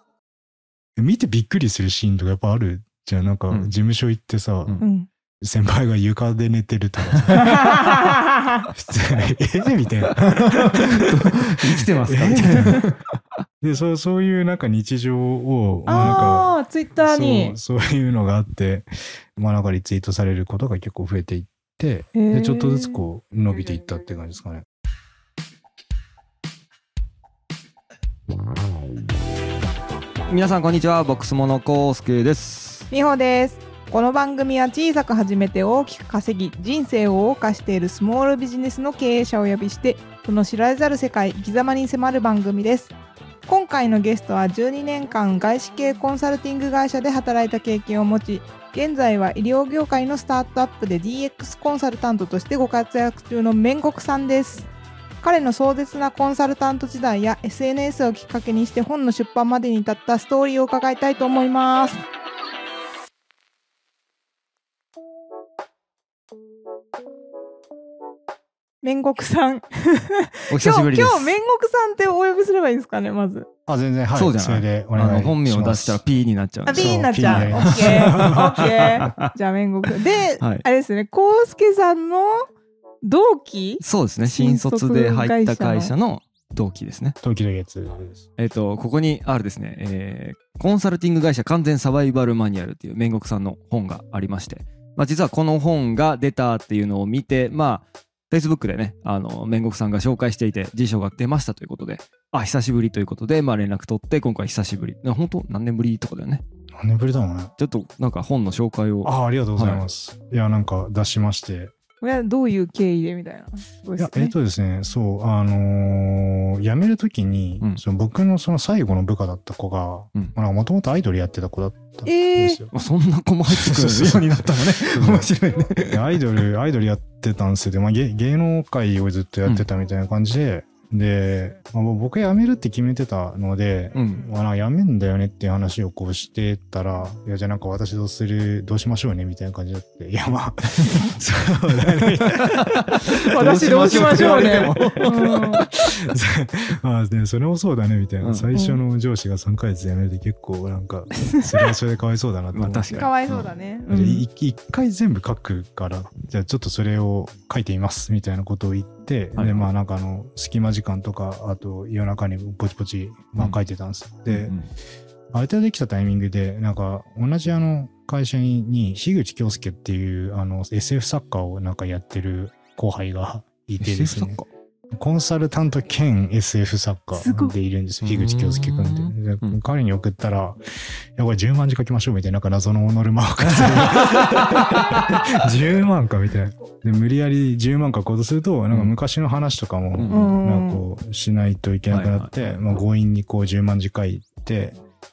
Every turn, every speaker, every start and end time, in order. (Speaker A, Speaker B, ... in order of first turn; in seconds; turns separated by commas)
Speaker A: 1.0-4.8, Speaker B: 4.8-5.1, Speaker A: 5.4-7.8, Speaker C: 7.1-7.4, Speaker B: 7.3-8.6, Speaker A: 8.7-12.9, Speaker C: 10.2-13.0, Speaker A: 13.6-24.6, Speaker B: 15.9-17.6, Speaker B: 22.1-23.0, Speaker C: 30.3-32.9, Speaker B: 32.9-42.9, Speaker B: 43.5-54.7, Speaker B: 55.2-62.0, Speaker B: 68.8-73.5, Speaker C: 70.5-71.4, Speaker A: 73.7-76.0, Speaker C: 74.1-79.3, Speaker B: 76.7-82.5, Speaker A: 76.7-79.0, Speaker C: 79.9-80.6, Speaker B: 83.0-85.9, Speaker C: 83.8-87.2, Speaker A: 87.2-88.2, Speaker C: 88.4-106.4, Speaker A: 106.7-107.5, Speaker C: 107.6-109.8, Speaker A: 109.0-111.7, Speaker B: 112.0-114.3, Speaker A: 114.0-122.7, Speaker B: 122.0-122.6, Speaker C: 122.7-126.2, Speaker A: 123.5-164.5, Speaker C: 133.9-134.2, Speaker C: 140.8-141.0, Speaker C: 142.0-145.6, Speaker B: 143.3-145.7, Speaker C: 148.2-148.5, Speaker B: 148.5-148.8, Speaker C: 152.5-153.1, Speaker B: 152.9-154.2, Speaker C: 159.3-159.7, Speaker C: 164.3-164.7, Speaker A: 165.3-180.6, Speaker C: 173.8-174.3, Speaker B: 177.1-177.5, Speaker C: 178.0-179.6, Speaker A: 181.2-194.8, Speaker C: 183.4-185.3, Speaker C: 189.9-190.3, Speaker B: 190.1-190.8, Speaker C: 191.9-192.3